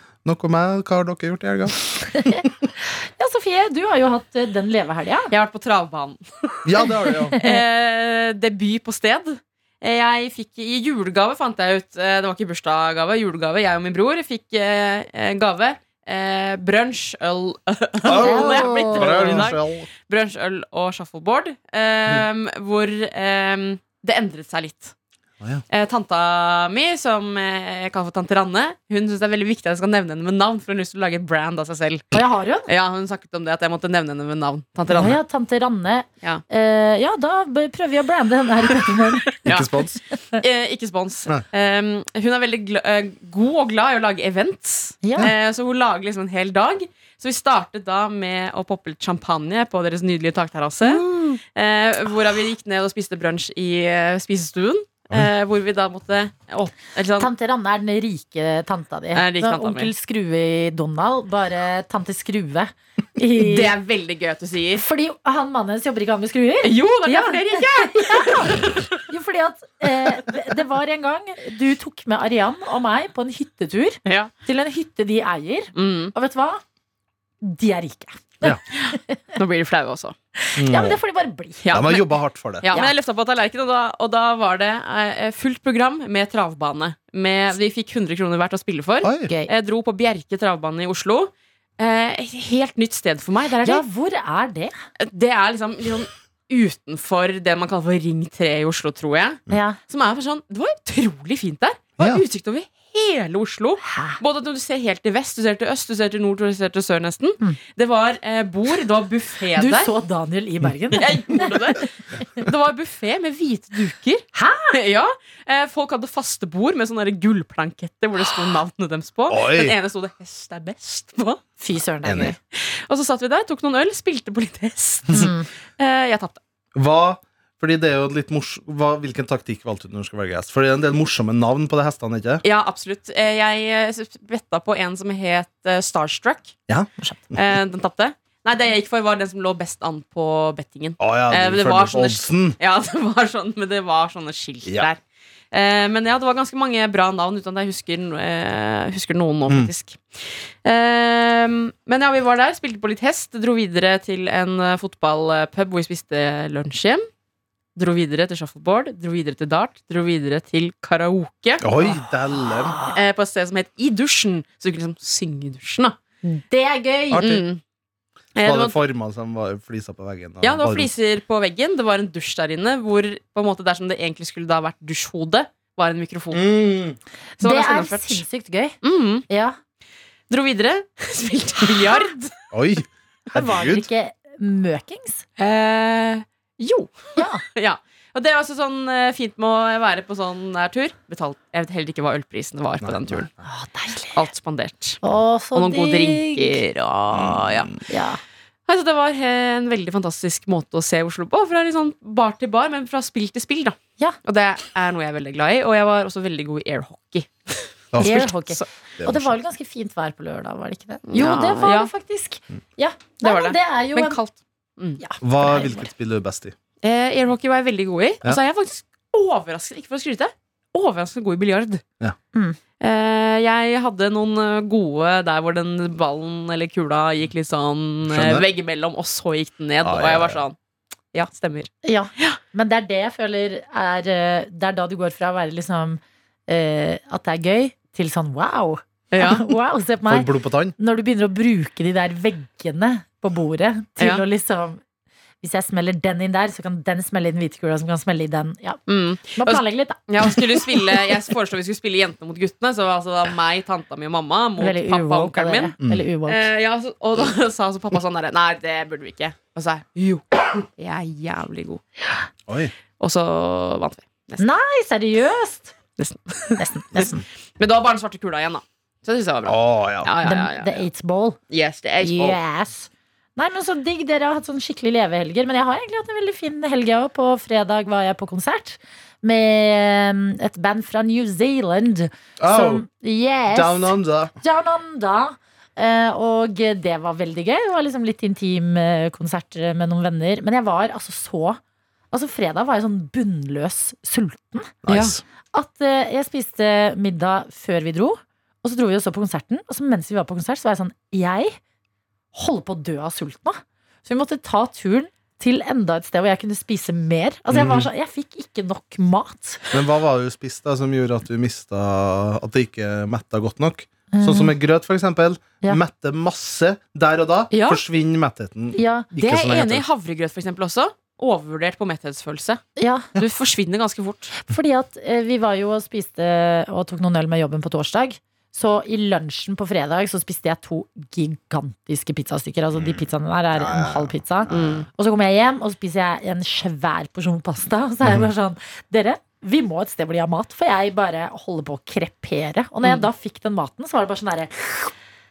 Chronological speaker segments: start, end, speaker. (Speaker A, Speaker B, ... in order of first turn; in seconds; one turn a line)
Speaker A: 0.2-2.7
Speaker B: 2.1-5.3
Speaker C: 5.3-6.6
Speaker A: 6.6-7.4
Speaker B: 7.3-7.6
Speaker C: 7.3-24.9
Speaker A: 18.0-19.9
Speaker B: 18.1-19.4
Speaker C: 25.7-32.1
Speaker B: 32.1-32.7
Speaker C: 32.7-35.2
Speaker B: 34.9-39.4
Speaker C: 39.3-39.7
Speaker A: 39.4-40.0
Speaker C: 40.4-57.3
Speaker B: 45.0-45.3
Speaker A: 50.8-51.4
Speaker B: 57.2-63.7
Speaker C: 59.1-59.9
Speaker C: 63.4-64.8
Speaker B: 64.8-76.6
Speaker C: 66.6-68.9
Speaker C: 74.0-74.3
Speaker C: 75.7-76.1
Speaker B: 77.4-79.2
Speaker C: 78.7-80.2
Speaker B: 80.4-81.7
Speaker A: 80.5-81.0
Speaker C: 81.6-82.1
Speaker A: 81.7-82.7
Speaker C: 82.6-93.8
Speaker A: 89.0-89.3
Speaker B: 93.6-94.7
Speaker C: 95.0-109.9
Speaker B: 99.5-99.8
Speaker A: 102.0-102.2
Speaker B: 103.9-104.2
Speaker B: 109.6-111.9
Speaker C: 111.0-121.4
Speaker B: 114.3-114.7
Speaker A: 119.3-119.8
Speaker B: 121.6-122.3
Speaker A: 122.0-122.3
Speaker C: 122.1-126.4
Speaker B: 125.1-125.5
Speaker A: 126.7-132.4
Speaker C: 132.4-136.6
Speaker A: 136.7-137.4
Speaker C: 137.3-145.0
Speaker A: 141.0-142.6
Speaker C: 145.5-157.0
Speaker C: 157.8-161.7
Speaker A: 161.6-162.8
Speaker C: 162.9-166.0
Speaker B: 166.2-167.2
Speaker A: 167.1-167.4
Speaker C: 167.2-167.6
Speaker C: 168.3-168.8
Speaker A: 168.4-170.9
Speaker C: 170.4-176.4
Speaker A: 176.3-177.0
Speaker B: 177.4-178.8
Speaker C: 177.4-178.2
Speaker C: 178.8-179.2
Speaker B: 179.3-179.6
Speaker C: 180.3-182.3
Speaker A: 182.5-183.9
Speaker B: 183.3-185.2
Speaker C: 185.4-193.3
Speaker B: 187.2-187.4
Speaker A: 192.8-193.3
Speaker B: 193.4-194.3
Speaker C: 194.1-195.0
Speaker B: 195.0-196.6
Speaker C: 195.5-197.8
Speaker A: 197.1-197.7
Speaker B: 197.9-198.2
Speaker C: 198.7-208.7
Speaker A: 207.9-208.3
Speaker B: 208.0-214.2
Speaker A: 209.0-209.3
Speaker C: 211.1-211.9
Speaker C: 213.2-215.0
Speaker B: 215.0-215.9
Speaker A: 215.2-216.5
Speaker C: 216.8-221.8
Speaker C: 222.8-230.6
Speaker A: 228.1-228.4
Speaker A: 229.8-230.4
Speaker C: 231.1-232.4
Speaker B: 231.8-244.8
Speaker C: 239.1-239.4
Speaker A: 240.1-240.7
Speaker C: 244.0-244.2
Speaker B: 245.4-248.8
Speaker C: 248.9-255.7
Speaker B: 249.3-251.0
Speaker B: 254.6-256.5
Speaker C: 256.2-261.8
Speaker A: 262.5-262.7
Speaker C: 263.0-264.4
Speaker B: 264.4-265.8
Speaker C: 266.0-270.8
Speaker B: 266.5-267.2
Speaker A: 269.4-270.1
Speaker B: 270.2-271.4
Speaker C: 271.5-272.4
Speaker B: 272.0-291.6
Speaker A: 282.4-282.8
Speaker A: 283.5-284.3
Speaker B: 292.1-294.7
Speaker A: 294.8-295.2
Speaker C: 294.9-295.1
Speaker B: 295.5-301.6
Speaker B: 302.3-309.6
Speaker A: 307.5-307.9
Speaker A: 309.7-319.8
Speaker B: 314.1-314.5
Speaker C: 317.5-317.8
Speaker B: 318.7-319.1
Speaker C: 319.2-322.6
Speaker B: 322.8-323.1
Speaker C: 323.1-324.3
Speaker B: 324.4-344.9
Speaker A: 333.5-334.9
Speaker C: 334.5-334.9